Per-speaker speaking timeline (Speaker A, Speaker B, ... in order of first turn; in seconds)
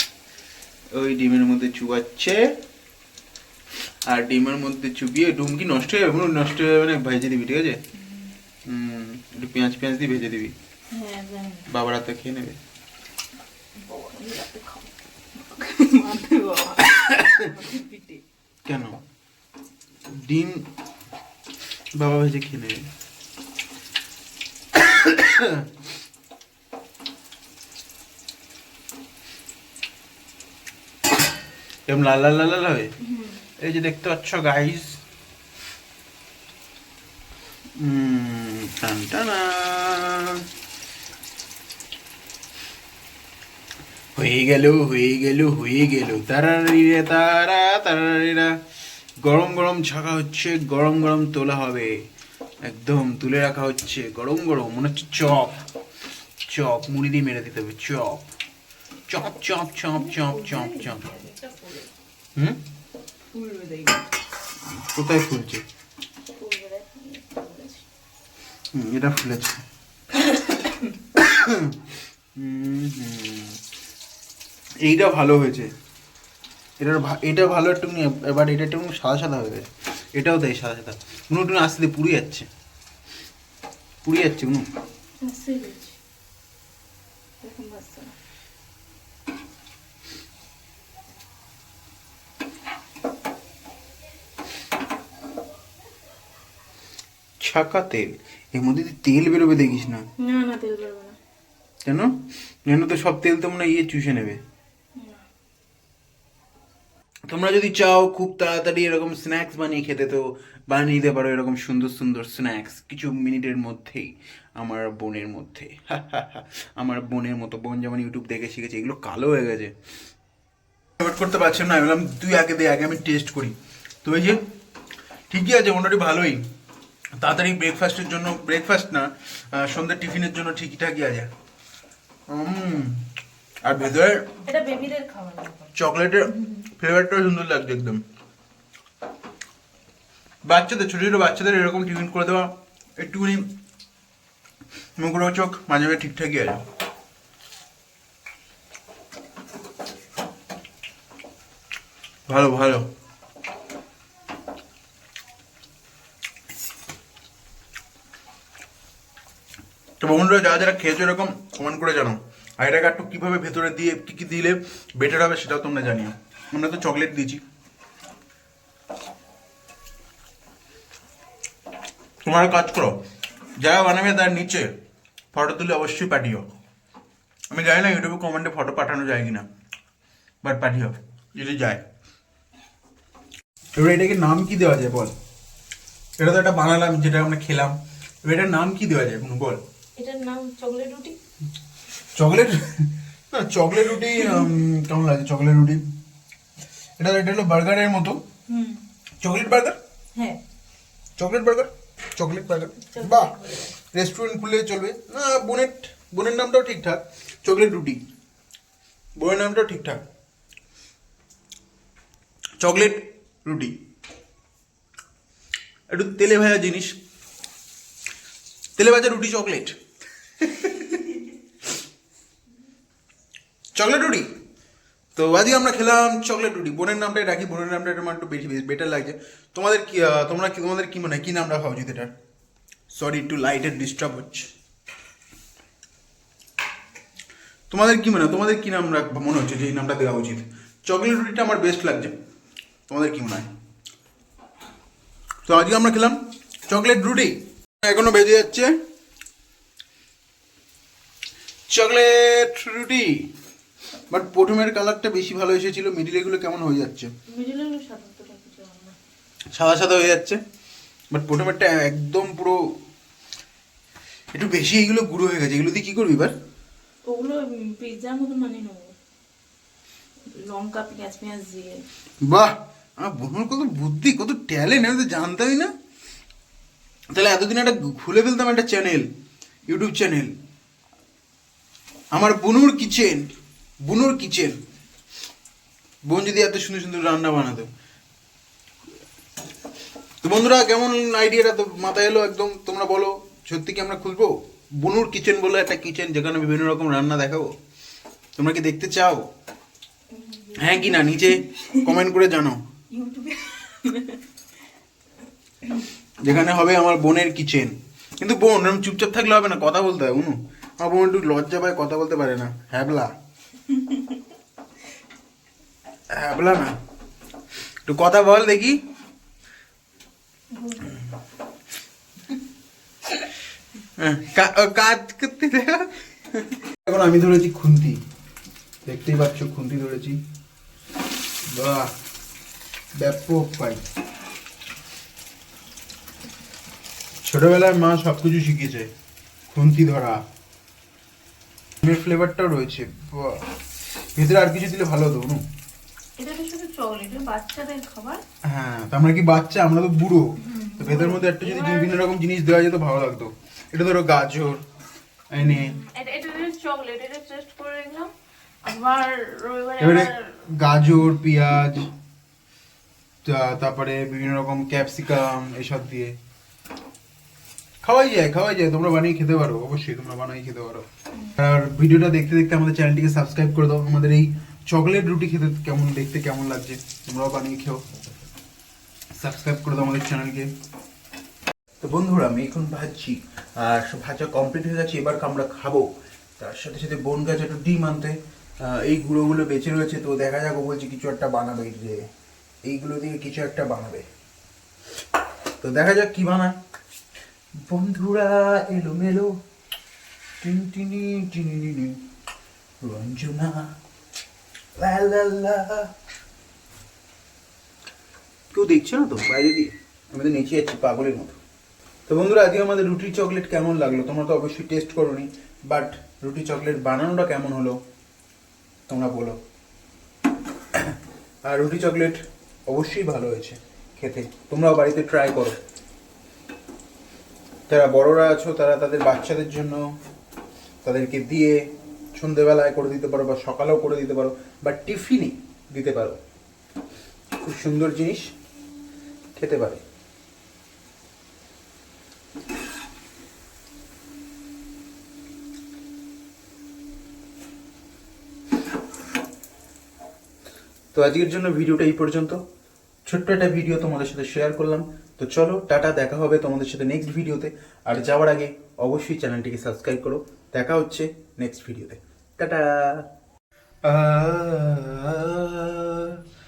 Speaker A: 0.9-2.5, 4.1-7.8, 8.7-10.6, 11.7-12.6, 17.1-17.4, 18.6-19.0, 20.1-20.7, 21.9-22.9, 24.8-25.7, 31.9-33.0, 33.6-35.0, 37.8-40.4, 44.2-48.5, 49.2-52.0, 52.6-55.6, 56.5-58.3, 59.1-61.0, 64.7-65.6, 68.7-69.6, 71.2-73.6, 74.8-75.7, 76.8-82.5, 84.0-84.7, 97.4-100.0, 101.8-102.1, 102.7-104.4, 107.3-119.7, 121.0-124.4, 125.3-126.4, 127.2-131.3, 132.3-133.0, 133.6-134.3, 135.8-138.0, 140.4-143.5, 145.0-146.6, 152.3-152.9, 160.0-167.4, 172.2-173.0, 173.6-174.7, 175.3-176.5, 177.5-179.5, 180.4-181.8, 183.8-185.2, 186.2-189.6, 192.2-195.9, 197.0-198.2, 199.2-199.8, 201.2-208.0, 209.2-210.0, 212.6-213.8, 215.9-217.0, 218.8-219.8, 220.4-221.0, 223.8-224.3, 225.2-232.1, 232.9-234.5, 237.7-242.2, 242.9-243.5, 245.5-248.8, 251.7-253.3, 254.1-257.1, 259.5-260.4, 261.1-262.6, 264.3-266.3, 272.2-275.7, 277.1-279.1, 279.7-280.3, 282.1-283.4, 283.9-284.6, 286.1-287.7, 290.2-297.6, 298.4-299.3, 300.6-302.6, 306.2-313.1, 316.1-316.8, 317.9-318.8, 324.0-328.0, 328.9-330.2, 331.4-331.9, 333.0-333.8, 337.2-338.9, 339.5-340.2, 341.8-343.4, 344.1-345.4, 348.4-354.6, 355.3-355.8, 359.8-361.9, 363.2-366.2, 367.8-377.8, 379.2-380.5, 381.8-392.1, 392.7-394.1, 395.6-396.6, 397.7-399.3, 400.4-402.0, 402.8-403.7, 404.8-405.9, 408.5-411.4, 412.1-417.8, 418.9-419.4, 421.4-425.6, 427.7-430.0, 430.8-436.2, 437.4-438.3, 439.4-439.8, 450.9-452.4, 453.1-463.1, 463.9-466.2
Speaker B: 8.0-8.3, 10.9-11.7, 13.8-18.2, 33.0-33.4, 59.9-61.9, 63.3-64.1, 66.3-67.9, 70.2-70.9, 85.2-86.0, 87.4-88.1, 100.2-101.2, 105.0-105.2, 134.2-135.8, 136.3-136.7, 190.0-191.2, 198.5-198.8, 200.1-200.4, 202.8-203.8, 257.3-259.0, 267.1-268.9, 270.4-271.9, 300.1-302.0, 302.9-304.3, 313.7-314.1, 320.5-321.1, 346.2-348.2, 350.4-352.1, 355.4-358.1, 358.6-360.4